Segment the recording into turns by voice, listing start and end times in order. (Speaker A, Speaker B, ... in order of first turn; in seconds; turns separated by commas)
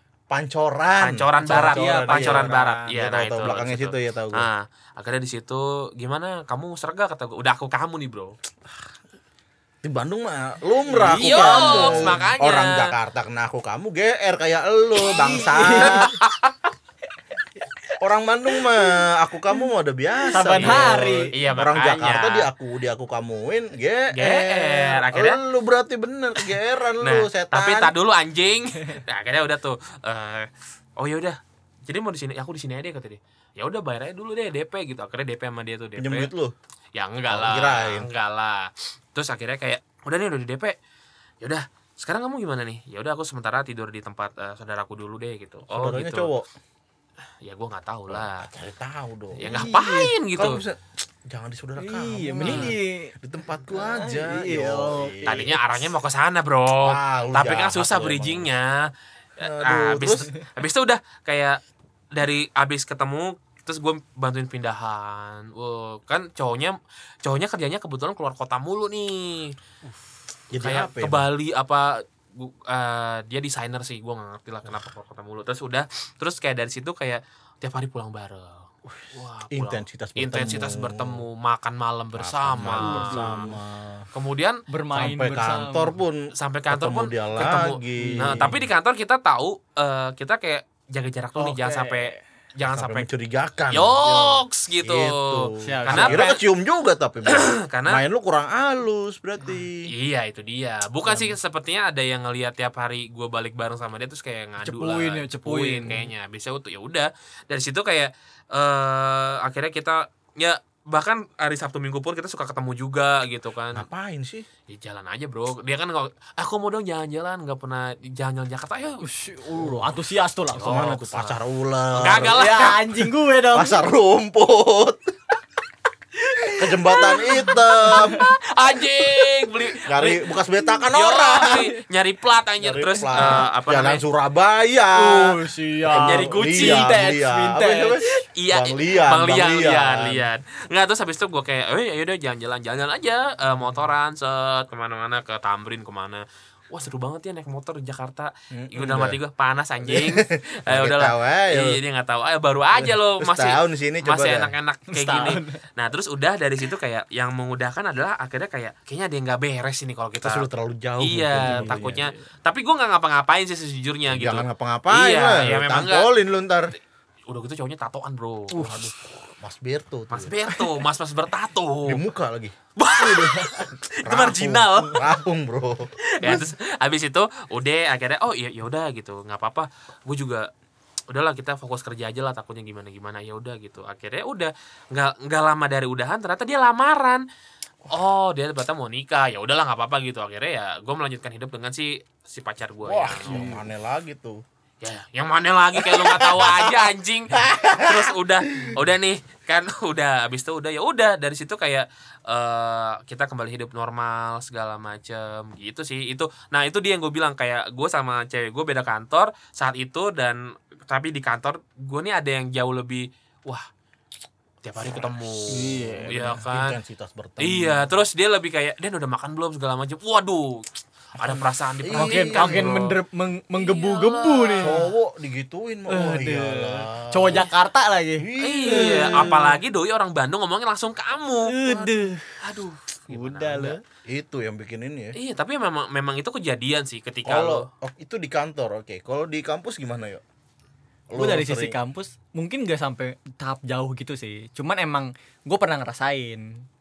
Speaker A: 0.3-4.5, Speaker B: 1.0-8.3, Speaker C: 1.4-2.6, Speaker A: 9.8-16.1, Speaker C: 10.9-12.2, Speaker B: 11.0-12.9, Speaker C: 15.0-16.0, Speaker B: 15.7-16.6, Speaker A: 18.0-27.9, Speaker C: 20.3-21.3, Speaker B: 20.5-22.5, Speaker B: 24.1-25.4, Speaker B: 27.0-36.3, Speaker A: 36.0-36.5, Speaker B: 36.9-40.7, Speaker A: 37.3-38.1, Speaker B: 41.4-46.3, Speaker A: 45.7-46.5, Speaker B: 47.4-48.5, Speaker A: 48.1-49.5, Speaker C: 49.4-50.1, Speaker B: 49.4-50.6, Speaker A: 50.3-55.6, Speaker C: 51.8-53.1, Speaker B: 52.4-52.7, Speaker C: 53.7-55.2, Speaker B: 55.2-61.6, Speaker A: 56.8-58.5, Speaker A: 59.4-60.3, Speaker B: 62.1-69.5, Speaker A: 70.5-71.3, Speaker B: 70.6-83.5, Speaker A: 78.8-81.2, Speaker A: 82.2-84.0, Speaker C: 82.8-83.5, Speaker B: 84.1-84.6, Speaker C: 84.7-85.9, Speaker A: 84.9-88.6, Speaker B: 86.4-93.0, Speaker C: 88.0-88.6, Speaker C: 91.4-92.2, Speaker A: 92.6-99.9, Speaker B: 93.7-96.4, Speaker C: 95.6-96.3, Speaker B: 97.2-98.0, Speaker B: 99.9-113.8, Speaker C: 104.6-106.0, Speaker A: 113.7-114.5, Speaker B: 114.7-119.0, Speaker C: 119.0-120.9, Speaker A: 119.6-119.9, Speaker A: 120.5-122.8, Speaker B: 120.6-121.4, Speaker B: 121.9-122.8, Speaker C: 122.3-123.8, Speaker A: 123.5-125.1, Speaker C: 126.2-129.5, Speaker A: 126.6-128.2, Speaker B: 128.4-130.3, Speaker A: 129.9-131.7, Speaker B: 130.9-134.0, Speaker A: 132.6-140.3, Speaker C: 134.9-138.1, Speaker B: 135.9-136.9, Speaker B: 138.3-160.4, Speaker A: 148.5-149.2, Speaker A: 149.9-151.8, Speaker A: 152.7-154.5, Speaker C: 154.9-155.6, Speaker A: 160.2-162.1, Speaker B: 161.0-166.1, Speaker C: 161.4-162.2, Speaker A: 164.1-166.7, Speaker B: 167.3-168.8, Speaker C: 168.5-168.9, Speaker A: 168.6-170.3, Speaker B: 170.1-172.0, Speaker A: 171.8-172.6, Speaker B: 172.8-175.1, Speaker C: 173.0-173.5, Speaker A: 174.0-176.5, Speaker B: 176.2-180.5, Speaker B: 181.1-187.2, Speaker B: 187.9-193.5, Speaker A: 192.8-194.4, Speaker C: 193.3-193.6, Speaker B: 194.8-213.7, Speaker A: 195.7-198.7, Speaker B: 214.6-216.8, Speaker A: 214.8-217.9, Speaker C: 215.5-216.4, Speaker B: 217.4-222.9, Speaker A: 221.2-222.7, Speaker C: 221.9-224.8, Speaker B: 223.5-224.9, Speaker A: 224.6-227.5, Speaker C: 225.9-229.6, Speaker A: 228.2-229.4, Speaker B: 228.4-231.7, Speaker C: 231.5-232.4, Speaker B: 232.4-233.8, Speaker C: 233.1-233.8, Speaker A: 234.1-235.1, Speaker B: 235.1-237.6, Speaker A: 237.2-240.2, Speaker A: 241.1-241.7, Speaker C: 241.1-246.6